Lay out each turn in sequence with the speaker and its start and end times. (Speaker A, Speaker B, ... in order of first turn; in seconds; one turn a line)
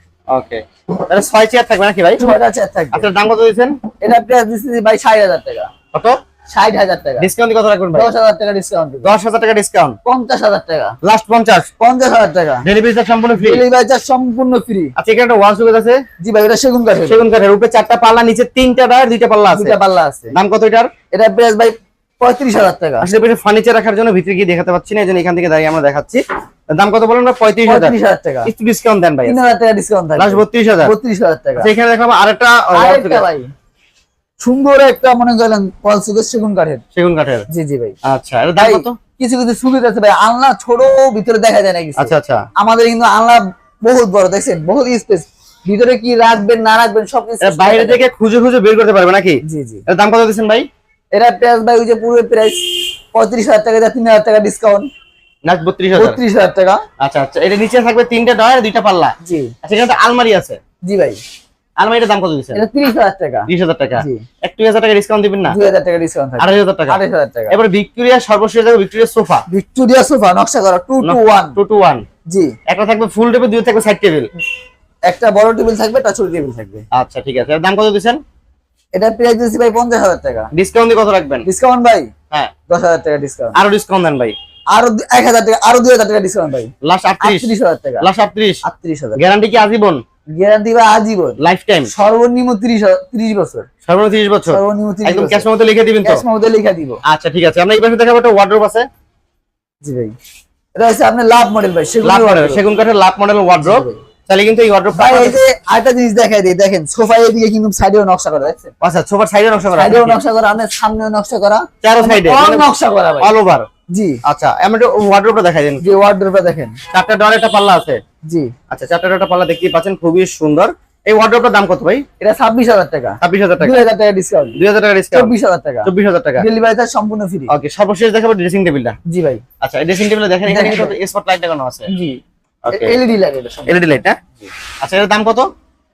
Speaker A: 0.3-2.3
Speaker B: 2.2-3.1
Speaker A: 2.9-3.8
Speaker B: 4.0-5.7
Speaker B: 6.5-7.3
Speaker A: 7.2-8.1
Speaker B: 7.9-9.1
Speaker A: 9.0-10.0
Speaker B: 10.0-10.9
Speaker A: 11.0-11.7
Speaker B: 11.8-12.7
Speaker A: 12.6-13.6
Speaker B: 13.4-14.9
Speaker A: 15.0-16.0
Speaker B: 16.2-17.3
Speaker A: 17.1-19.8
Speaker B: 19.5-20.3
Speaker A: 20.3-20.9
Speaker B: 21.1-23.1
Speaker A: 23.0-27.9
Speaker B: 27.6-28.5
Speaker A: 28.4-29.4
Speaker B: 29.2-31.7
Speaker A: 30.2-30.9
Speaker A: 31.6-33.2
Speaker B: 32.7-33.5
Speaker B: 34.4-36.8
Speaker A: 36.9-37.5
Speaker B: 37.5-37.9
Speaker A: 38.0-39.0
Speaker B: 38.6-48.0
Speaker A: 42.0-42.5
Speaker A: 47.4-50.6
Speaker B: 49.4-49.8
Speaker B: 51.1-54.9
Speaker A: 55.5-56.2
Speaker B: 55.9-56.8
Speaker A: 57.0-60.6
Speaker B: 59.2-59.5
Speaker B: 60.8-61.2
Speaker A: 61.8-62.6
Speaker B: 62.5-63.5
Speaker A: 63.5-65.6
Speaker B: 64.0-64.2
Speaker B: 65.5-67.5
Speaker A: 66.4-67.0
Speaker A: 67.5-69.4
Speaker B: 69.5-71.6
Speaker A: 71.0-72.0
Speaker B: 72.3-72.5
Speaker A: 72.7-74.3
Speaker B: 75.1-76.8
Speaker A: 76.9-78.2
Speaker B: 78.9-80.5
Speaker A: 80.5-81.5
Speaker B: 81.5-82.1
Speaker B: 82.7-83.6
Speaker A: 83.5-84.3
Speaker B: 84.7-88.0
Speaker A: 86.8-87.5
Speaker A: 88.0-88.6
Speaker B: 88.6-89.2
Speaker A: 89.2-90.0
Speaker B: 90.3-91.4
Speaker A: 91.4-91.9
Speaker B: 91.9-93.7
Speaker A: 93.8-96.2
Speaker B: 94.5-95.5
Speaker B: 96.0-97.0
Speaker A: 97.0-98.9
Speaker B: 99.8-100.1
Speaker B: 100.8-102.6
Speaker A: 102.0-105.4
Speaker B: 103.6-104.0
Speaker B: 104.9-108.7
Speaker A: 108.8-110.2
Speaker B: 109.7-113.3
Speaker A: 111.8-112.7
Speaker A: 113.2-113.7
Speaker B: 113.9-114.2
Speaker A: 114.2-115.8
Speaker B: 115.8-116.8
Speaker A: 116.9-118.0
Speaker A: 118.7-122.0
Speaker B: 122.2-124.6
Speaker A: 123.2-123.7
Speaker A: 124.5-125.3
Speaker B: 125.1-127.5
Speaker A: 125.8-126.4
Speaker A: 127.5-128.9
Speaker B: 129.1-129.4
Speaker A: 129.6-131.9
Speaker B: 130.5-130.9
Speaker B: 131.9-132.2
Speaker A: 132.6-133.0
Speaker B: 132.7-133.8
Speaker A: 133.7-134.2
Speaker A: 134.8-135.5